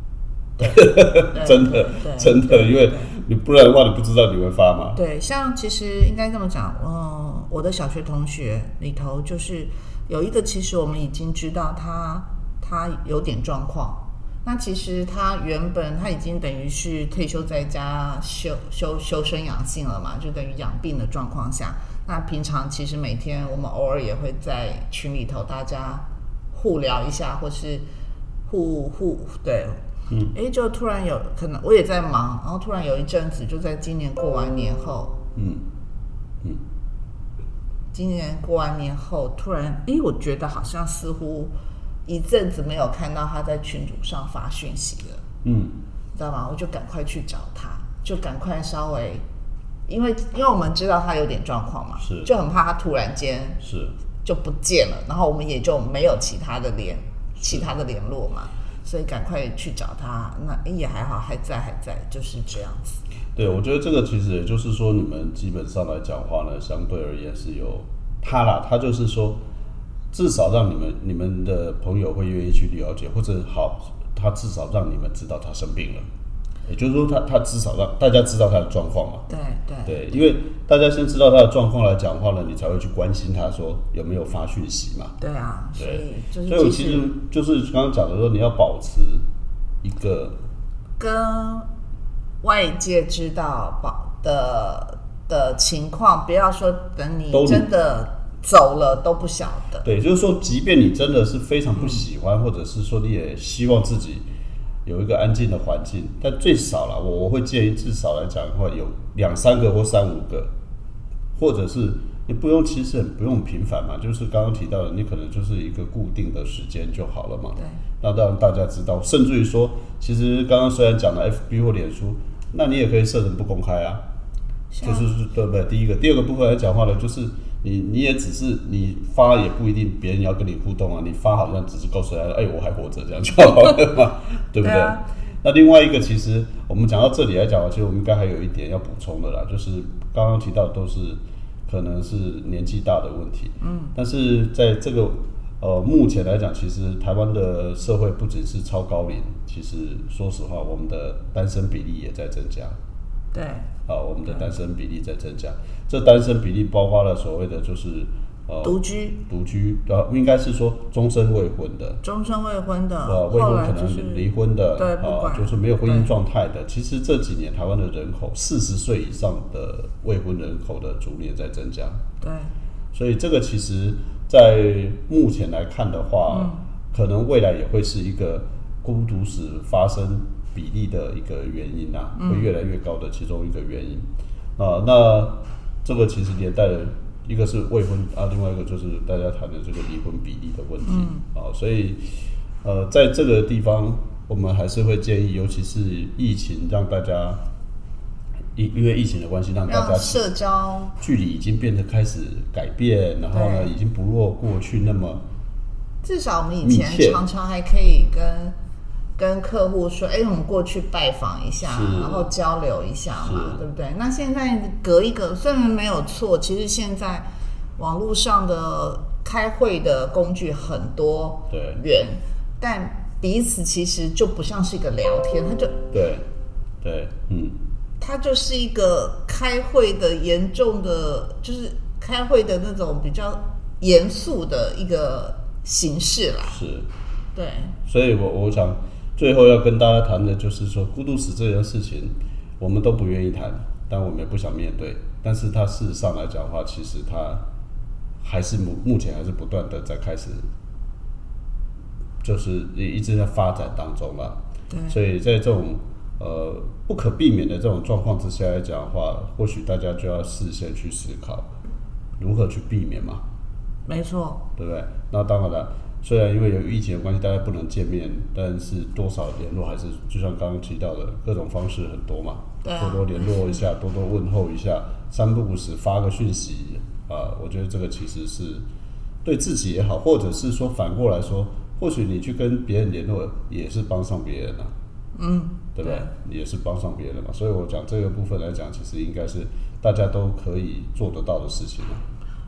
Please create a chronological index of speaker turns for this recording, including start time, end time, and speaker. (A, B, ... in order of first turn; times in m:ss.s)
0:00.6-0:05.0 A
0:00.6-0:03.1 B
0:04.9-0:27.8 B
0:28.5-0:29.8 B
0:30.3-0:35.2 B
0:35.4-0:35.6 A
0:37.9-0:41.5 B
0:42.0-0:45.2 B
0:45.4-0:45.8 A
0:46.1-0:49.2 B
0:49.9-0:53.6 B
0:52.0-0:52.3 A
0:53.6-0:53.9 A
0:54.2-1:03.0 B
1:03.4-1:09.4 A
1:10.1-1:16.0 A
1:16.7-1:19.2 A
1:19.3-1:20.2 B
1:19.8-1:25.1 A
1:25.2-1:27.0 B
1:25.8-1:29.2 A
1:29.8-1:30.4 A
1:31.0-1:31.7 B
1:32.4-1:39.8 B
1:37.3-1:37.7 A
1:39.8-1:44.2 A
1:44.8-1:50.5 A
1:51.4-2:04.0 A
2:04.7-2:05.1 B
2:04.8-2:32.8 A
2:14.6-2:15.0 B
2:23.6-2:23.9 B
2:33.3-2:33.7 B
2:33.9-2:42.0 A
2:38.6-2:39.2 B
2:42.0-2:46.1 B
2:43.0-2:52.0 A
2:52.2-2:52.5 B
2:52.9-3:12.1 A
2:56.3-2:56.6 B
3:02.2-3:02.5 B
3:10.8-3:11.2 B
3:12.6-3:17.4 A
3:18.5-3:20.2 A
3:19.7-3:21.0 B
3:21.0-3:25.2 A
3:23.3-3:23.7 B
3:26.0-3:28.5 B
3:26.6-3:27.2 A
3:29.2-3:45.8 B
3:31.6-3:32.3 A
3:33.2-3:33.6 A
3:41.5-3:41.8 A
3:45.9-3:46.2 A
3:46.8-3:47.6 A
3:48.0-3:56.6 B
3:56.5-3:56.9 A
3:57.3-3:57.8 B
3:57.8-4:07.4 A
4:08.2-4:10.5 A
4:12.2-4:21.5 A
4:14.7-4:15.0 B
4:22.2-4:23.2 A
4:23.9-4:24.4 B
4:24.6-4:38.6 A
4:32.6-4:33.6 B
4:39.2-4:44.7 A
4:45.2-4:46.1 B
4:45.8-4:52.0 A